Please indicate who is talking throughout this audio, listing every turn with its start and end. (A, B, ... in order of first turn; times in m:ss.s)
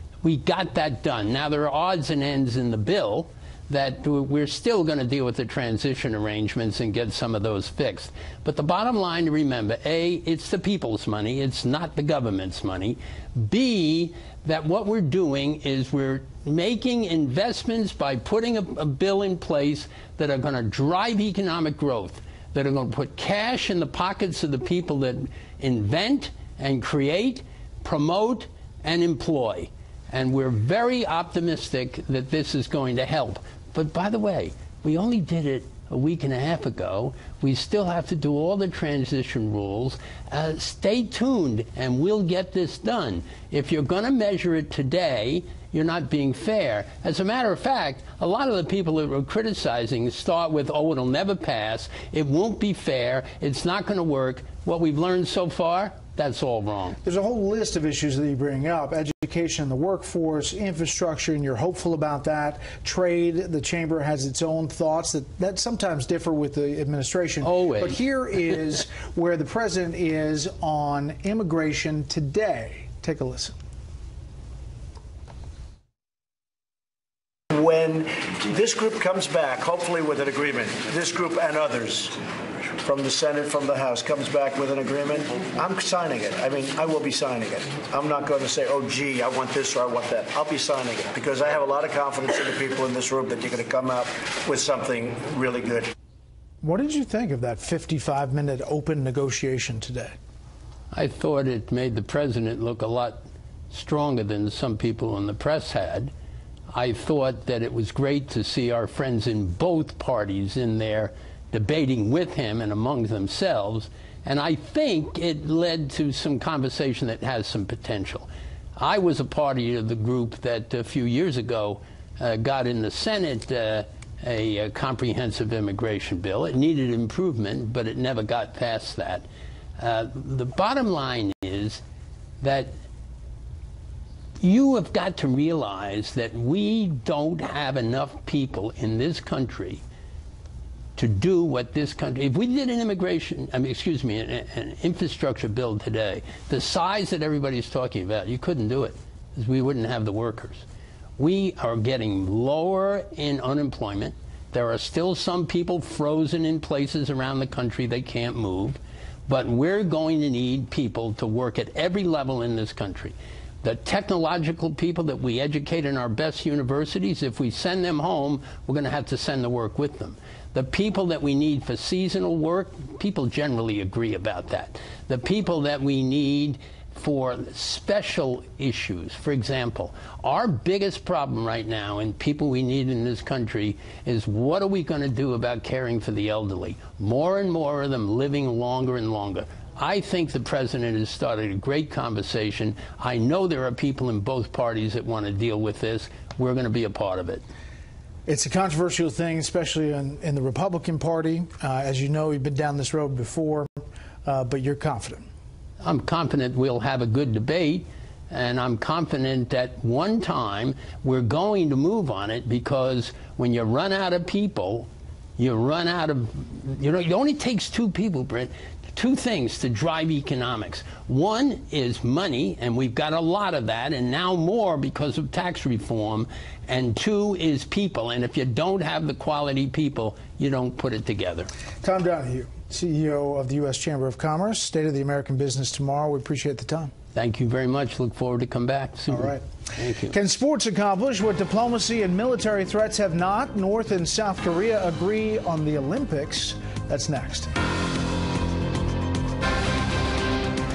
0:00.2-0:57.0 A
0:57.0-1:13.5 B
1:07.4-1:08.0 A
1:17.5-1:22.2 C
1:22.8-1:35.9 C
1:36.6-1:40.1 B
1:40.9-1:46.1 A
1:46.7-2:09.2 A
2:09.8-2:11.8 A
2:12.4-2:12.7 A
2:14.4-2:19.8 A
2:21.0-2:30.6 A
2:31.2-3:17.4 A
3:18.3-3:25.3 B
3:25.8-3:51.5 A
3:51.8-3:56.9 B
3:57.1-4:00.1 A
3:59.1-3:59.4 B
4:00.1-4:07.5 B